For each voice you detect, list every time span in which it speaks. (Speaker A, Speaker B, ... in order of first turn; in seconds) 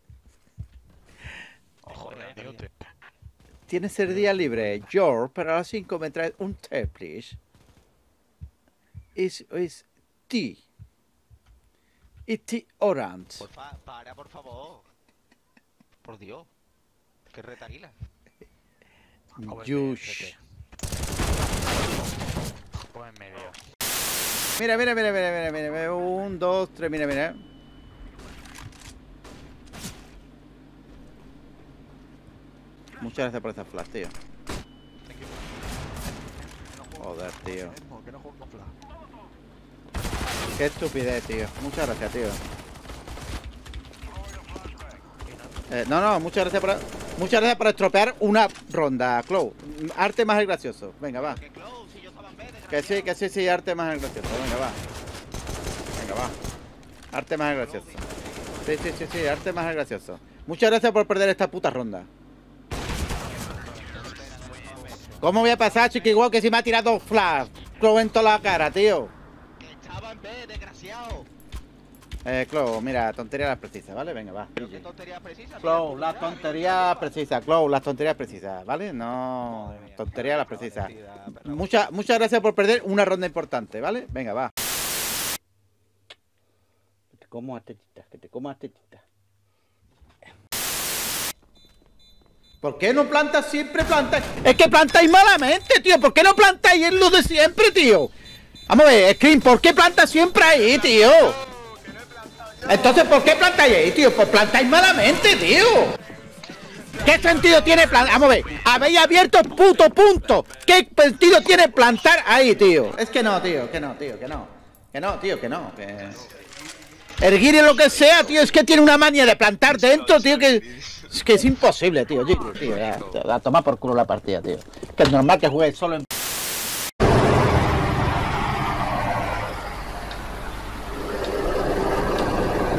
Speaker A: 1.8-2.7, 19.4-20.4, 22.8-23.6, 35.1-35.5, 36.7-38.7, 64.0-64.9
Speaker B: 1.9-2.6, 13.4-14.9, 16.0-16.5, 17.3-17.9, 51.2-53.2, 57.5-58.9, 63.3-66.3, 69.6-71.3, 74.5-77.2, 79.4-81.9, 111.5-111.9, 116.1-116.3, 117.5-118.5, 119.7-120.9, 122.5-123.1
Speaker C: 3.7-7.4, 9.2-10.6, 12.3-13.5, 19.4-20.3, 24.6-27.4, 33.0-34.1, 37.0-37.8, 40.5-42.4, 45.7-51.4, 52.7-54.8, 56.0-56.4, 57.1-57.9, 58.6-62.1, 65.2-69.1, 72.2-74.8, 75.6-80.9, 81.4-84.5, 87.2-89.0, 92.6-98.1, 98.7-101.4, 102.7-106.0, 107.0-116.2, 117.2-126.1